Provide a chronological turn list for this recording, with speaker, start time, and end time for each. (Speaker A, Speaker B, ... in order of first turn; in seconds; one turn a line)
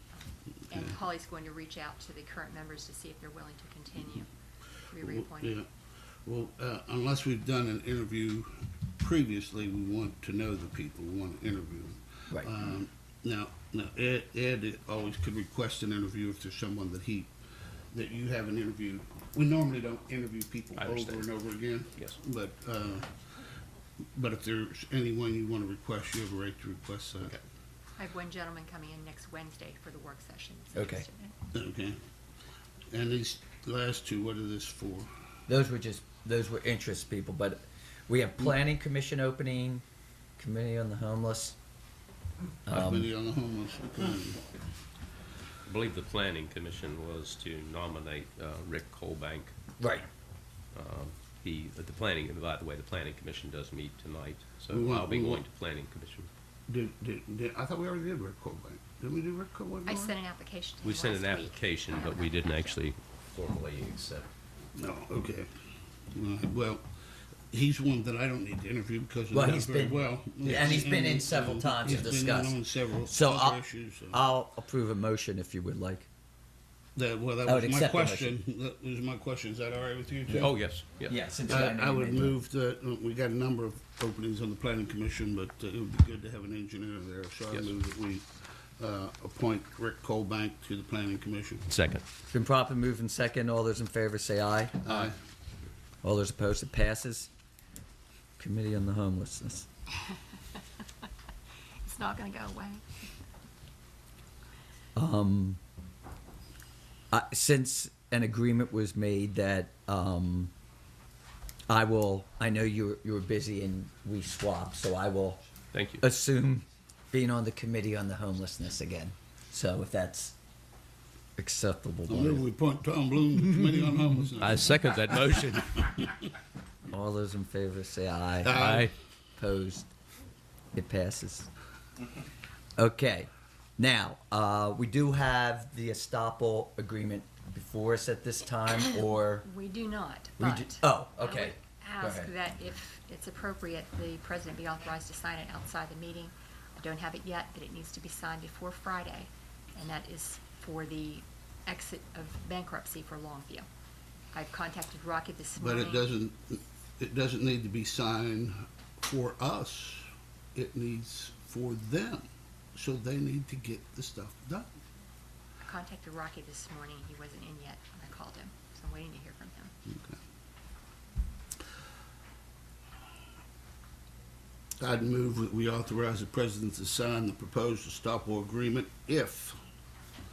Speaker A: 0.1-4.3
Speaker A: 4.9-5.6
Speaker B: 5.0-5.7
Speaker B: 6.2-17.3
Speaker B: 17.9-23.1
Speaker C: 20.8-21.3
Speaker B: 24.1-27.4
Speaker A: 28.0-31.3
Speaker D: 30.8-31.1
Speaker B: 31.5-32.0
Speaker B: 32.9-35.1
Speaker D: 35.5-39.8
Speaker D: 40.4-41.6
Speaker D: 42.7-43.1
Speaker B: 42.7-44.6
Speaker C: 45.6-49.5
Speaker D: 49.8-50.1
Speaker C: 50.7-56.3
Speaker B: 54.7-55.4
Speaker B: 56.7-60.2
Speaker A: 59.9-62.8
Speaker C: 60.8-64.3
Speaker B: 64.8-65.5
Speaker B: 66.1-66.9
Speaker B: 67.5-74.2
Speaker D: 69.3-76.1
Speaker B: 77.0-80.5
Speaker D: 77.5-78.3
Speaker C: 80.3-81.2
Speaker D: 81.1-82.4
Speaker B: 81.5-91.7
Speaker C: 91.7-92.0
Speaker D: 92.3-95.1
Speaker B: 94.8-95.2
Speaker D: 96.0-97.3
Speaker D: 98.4-99.7
Speaker A: 101.8-102.8
Speaker D: 105.0-105.6
Speaker D: 107.1-110.5
Speaker D: 111.7-115.4
Speaker C: 115.7-116.0
Speaker D: 116.0-120.4
Speaker D: 121.4-122.4
Speaker B: 122.1-125.8
Speaker C: 124.4-126.0
Speaker D: 126.9-128.7
Speaker B: 128.4-128.9
Speaker C: 128.5-128.9
Speaker D: 129.4-129.9
Speaker D: 130.7-131.5
Speaker D: 132.8-139.4
Speaker A: 139.4-153.7
Speaker D: 140.4-142.3
Speaker A: 154.3-156.1
Speaker B: 155.6-164.7
Speaker A: 165.6-169.7
Speaker B: 169.9-170.2
Speaker B: 174.8-179.6